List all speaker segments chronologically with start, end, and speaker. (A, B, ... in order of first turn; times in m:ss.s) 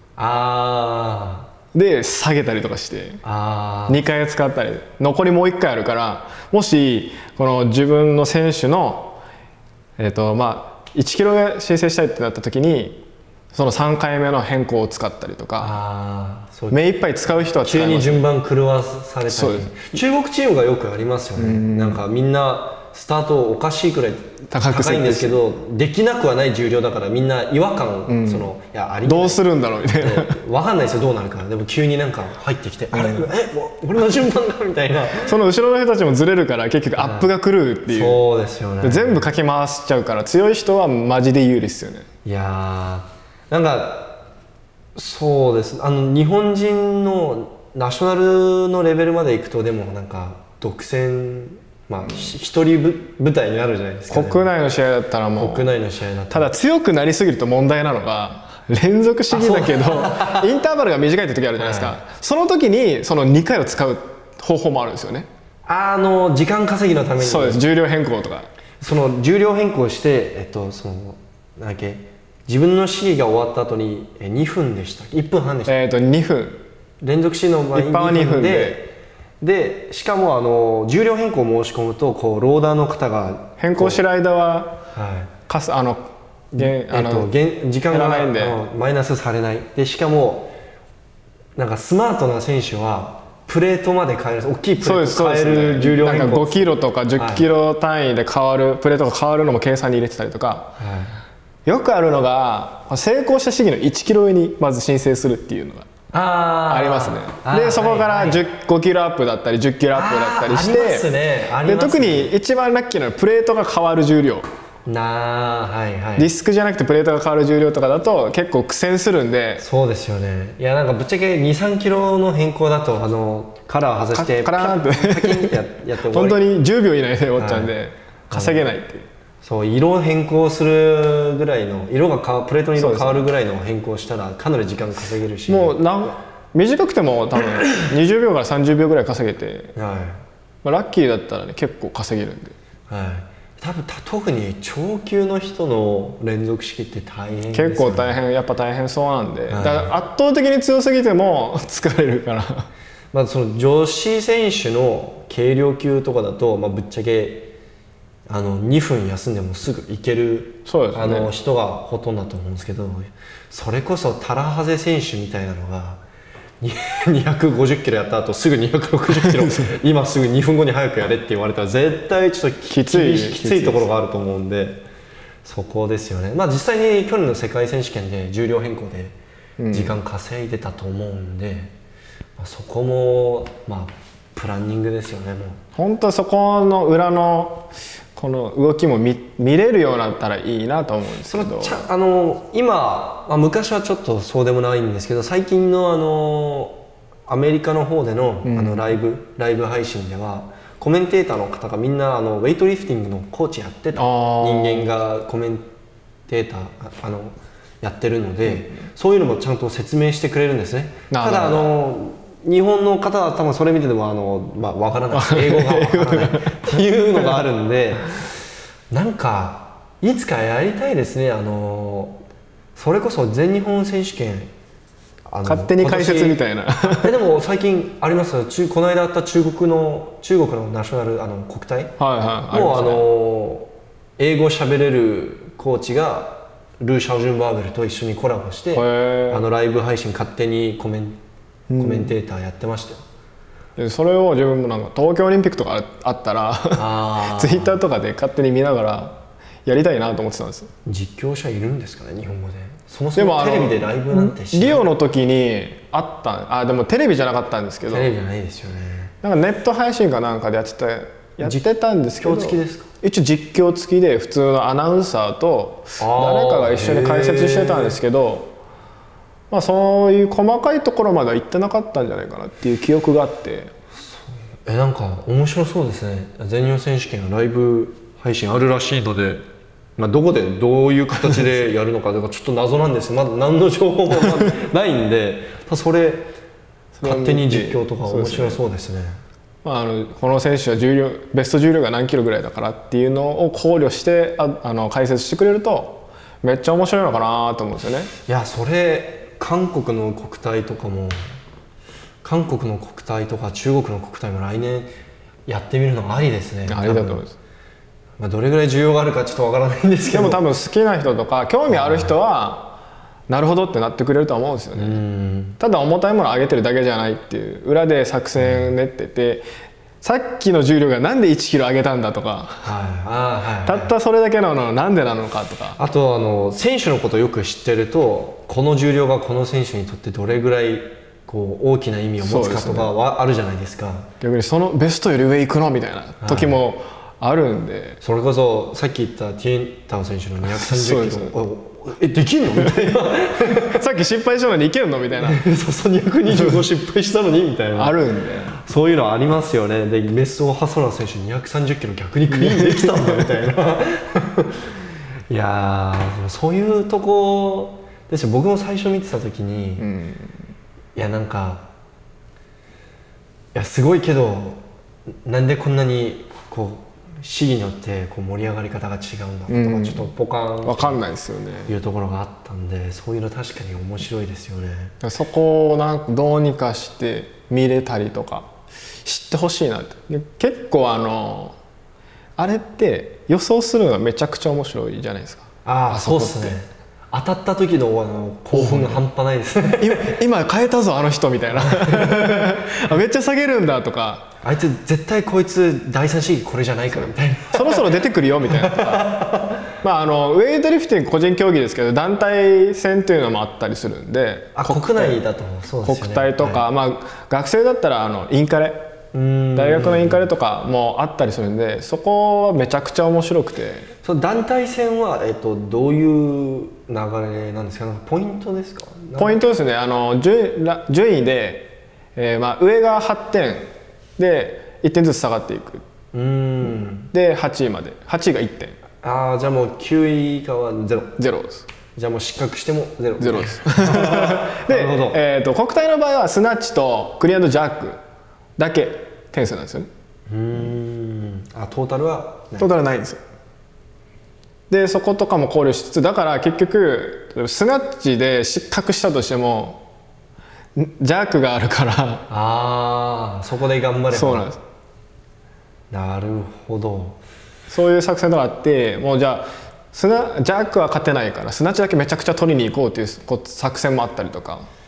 0:00.2-0:01.5 A
0:01.7-0:03.2 B
0:03.2-0:04.0 A
0:03.9-0:09.2 B
0:10.0-0:15.8 B
0:15.6-0:16.8 A
0:16.7-0:18.2 B
0:17.6-0:35.3 A
0:19.3-0:19.8 B
0:21.4-0:22.0 B
0:24.5-0:25.4 B
0:28.1-0:28.5 B
0:29.0-0:30.4 B
0:32.9-0:33.3 B
0:35.2-0:38.2 B
0:37.0-0:37.3 A
0:37.9-0:39.3 A
0:38.8-0:42.1 B
0:42.2-0:44.2 A
0:45.0-0:54.5 A
0:54.1-0:55.7 B
0:55.4-0:56.5 A
0:56.3-1:05.3 B
0:59.3-1:00.5 A
1:01.6-1:02.0 A
1:05.7-1:07.6 A
1:07.2-1:08.5 B
1:08.8-1:15.8 A
1:15.7-1:16.6 B
1:17.0-1:18.9 A
1:17.7-1:18.8 B
1:19.4-1:24.0 A
1:23.6-1:24.8 B
1:24.9-1:25.3 A
1:25.5-1:27.3 B
1:26.5-1:30.5 A
1:27.9-1:28.6 B
1:31.6-1:37.4 A
1:34.8-1:40.8 B
1:40.8-1:41.2 A
1:41.6-1:45.9 B
1:46.1-1:48.4 A
1:46.7-1:51.1 B
1:49.9-1:52.3 A
1:51.6-1:54.4 B
1:54.8-1:56.3 A
1:56.2-1:59.6 B
1:59.6-2:06.4 A
2:04.1-2:09.1 B
2:07.4-2:07.7 A
2:08.3-2:08.7 A
2:09.4-2:15.8 A
2:12.8-2:13.2 B
2:15.5-2:19.7 B
2:19.7-2:20.2 A
2:20.6-2:22.6 B
2:22.9-2:28.2 A
2:27.5-2:32.7 B
2:29.5-2:29.9 A
2:33.1-2:37.5 A
2:38.3-2:46.0 A
2:40.7-2:41.3 B
2:46.6-2:54.8 A
2:49.1-2:49.7 B
2:52.7-2:53.9 B
2:55.4-2:59.1 A
2:59.6-3:00.0 B
2:59.7-3:01.7 A
3:02.4-3:05.6 A
3:05.8-3:11.8 B
3:11.2-3:25.6 A
3:18.4-3:19.0 B
3:24.0-3:24.9 B
3:26.3-3:42.2 A
3:31.1-3:31.7 B
3:35.1-3:36.8 B
3:42.8-3:44.5 A
3:45.3-3:51.9 A
3:45.4-3:47.1 B
3:52.0-3:53.1 B
3:52.5-4:01.2 A
3:58.7-3:59.4 B
4:01.7-4:02.1 B
4:01.8-4:03.0 A
4:03.8-4:10.7 B
4:06.7-4:07.8 A
4:10.8-4:14.9 A
4:13.2-4:18.1 B
4:17.9-4:19.1 A
4:19.2-4:28.5 B
4:21.4-4:22.9 A
4:26.0-4:28.0 A
4:29.5-4:33.7 B
4:34.0-4:39.4 A
4:40.0-4:46.3 A
4:46.9-4:48.6 B
4:47.0-4:49.2 A
4:49.6-4:58.1 B
4:58.3-5:01.3 A
5:02.2-5:04.9 A
5:05.5-5:07.2 A
5:06.7-5:07.3 B
5:08.2-5:10.4 A
5:10.1-5:12.8 B
5:11.7-5:12.2 A
5:13.3-5:15.0 B
5:14.7-5:15.6 A
5:15.6-5:19.4 B
5:18.4-5:18.7 A
5:20.0-5:22.7 B
5:22.6-5:23.9 A
5:23.6-5:25.8 B
5:25.8-5:34.1 A
5:32.2-5:32.9 B
5:34.2-5:38.0 B
5:36.2-5:36.6 A
5:38.0-5:43.8 A
5:40.5-5:41.4 B
5:42.6-5:45.4 B
5:45.2-5:48.0 A
5:46.3-5:46.6 B
5:47.7-5:48.6 B
5:48.5-5:54.7 A
5:52.3-5:53.3 B
5:55.3-5:59.9 A
5:59.8-6:00.4 B
6:00.9-6:01.7 A
6:03.5-6:04.6 A
6:05.2-6:11.0 A
6:09.5-6:10.1 B
6:10.6-6:11.7 B
6:11.7-6:14.9 A
6:15.0-6:18.5 B
6:19.0-6:21.6 B
6:22.4-6:26.5 B
6:25.6-6:30.2 A
6:28.5-6:29.0 B
6:29.8-6:34.3 B
6:31.5-6:32.7 A
6:34.4-6:39.7 A
6:37.5-6:39.2 B
6:39.8-6:45.2 B
6:44.5-6:46.6 A
6:45.8-6:48.8 B
6:49.1-6:50.3 A
6:49.6-6:53.9 B
6:54.0-6:59.4 A
6:59.2-7:05.8 B
7:06.1-7:07.1 A
7:07.1-7:08.8 B
7:09.0-7:11.2 A
7:11.2-7:11.6 B
7:12.0-7:15.2 A
7:13.2-7:18.0 B
7:18.6-7:19.9 B
7:20.3-7:22.7 A
7:22.6-7:23.2 B
7:24.7-7:29.8 B
7:30.7-7:32.2 B
7:32.3-7:34.5 A
7:34.1-7:34.6 B
7:35.9-7:37.2 A
7:37.7-7:44.7 B